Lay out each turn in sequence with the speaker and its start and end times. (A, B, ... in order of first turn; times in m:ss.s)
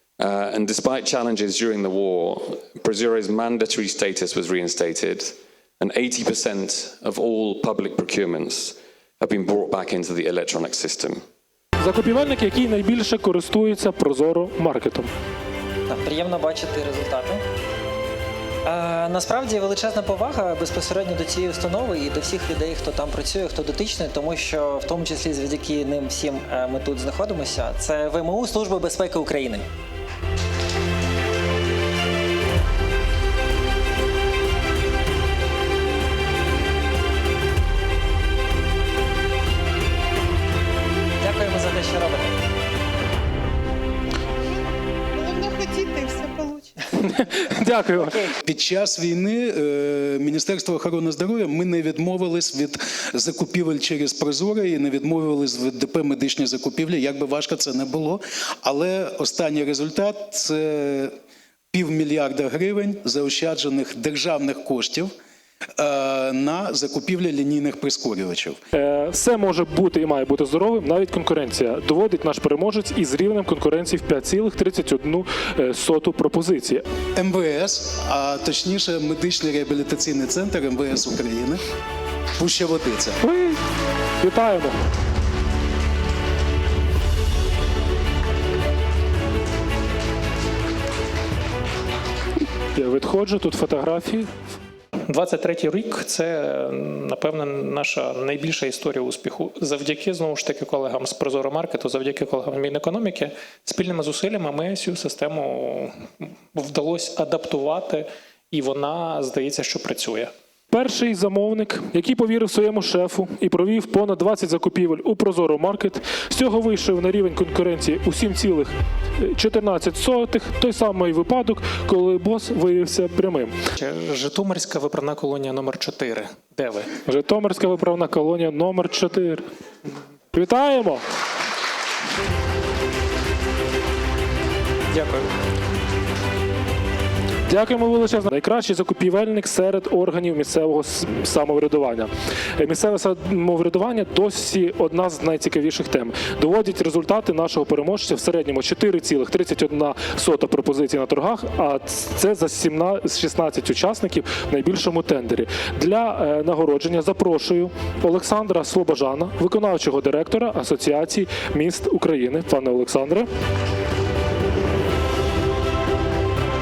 0:00.2-0:11.2 A
0:11.8-0:15.1 B
0:15.9-0:17.4 C
0:18.6-0:29.6 C
0:41.2-0:42.3 C
0:47.0-0:48.2 B
0:48.4-1:01.1 D
1:01.7-1:05.1 D
1:05.8-1:08.6 D
1:08.7-1:16.8 B
1:17.2-1:21.6 D
1:22.4-1:23.2 D
1:23.2-1:23.6 B
1:24.2-1:24.7 B
1:32.7-1:34.3 B
1:35.1-1:50.3 E
1:50.7-2:03.5 B
2:03.8-2:06.9 E
2:07.0-2:09.4 B
2:10.3-2:11.0 B
2:14.9-2:15.2 E
2:17.5-2:43.3 B